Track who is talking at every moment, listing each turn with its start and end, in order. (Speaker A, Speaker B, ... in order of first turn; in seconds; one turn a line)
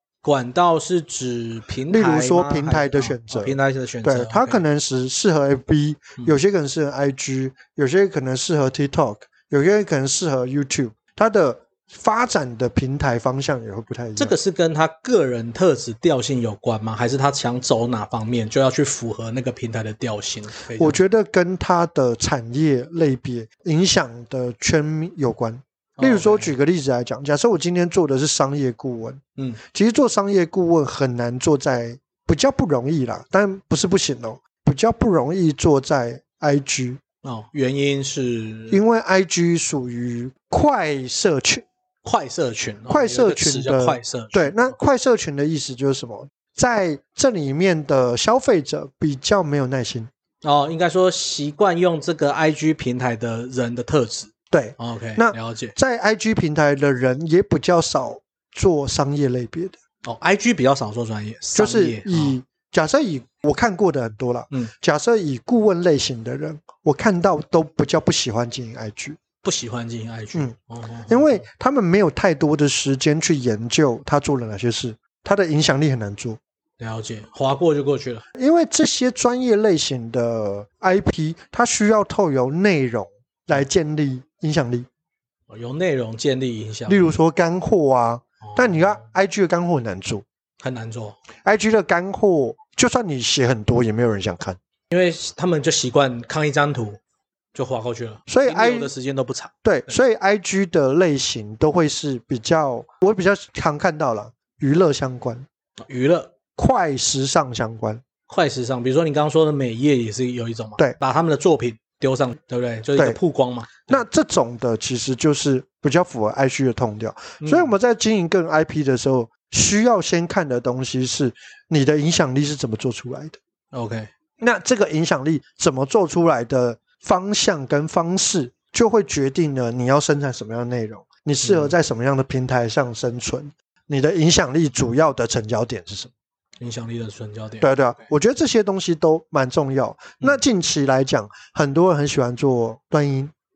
Speaker A: 0.2-4.6
Speaker B: 1.9-14.3
Speaker A: 14.2-21.0
Speaker B: 20.8-37.0
Speaker A: 26.0-26.5
Speaker A: 37.2-38.8
Speaker B: 38.7-41.6
Speaker A: 42.0-44.8
Speaker B: 42.9-50.1
Speaker A: 50.4-55.8
Speaker B: 54.5-59.8
Speaker A: 60.0-62.4
Speaker B: 61.5-69.2
Speaker A: 69.4-71.5
Speaker B: 71.1-76.4
Speaker A: 76.8-78.2
Speaker B: 78.3-84.9
Speaker A: 85.5-87.1
Speaker B: 86.9-90.2
Speaker A: 88.4-89.0
Speaker A: 90.6-91.2
Speaker B: 91.4-94.6
Speaker A: 94.9-97.0
Speaker A: 97.5-100.0
Speaker B: 98.3-98.9
Speaker B: 99.6-105.5
Speaker A: 105.8-106.3
Speaker B: 106.5-108.0
Speaker A: 108.3-114.0
Speaker B: 113.9-123.4
Speaker A: 117.4-117.7
Speaker A: 123.7-124.1
Speaker B: 124.4-136.1
Speaker A: 131.4-131.7
Speaker A: 136.6-138.0
Speaker B: 137.6-143.3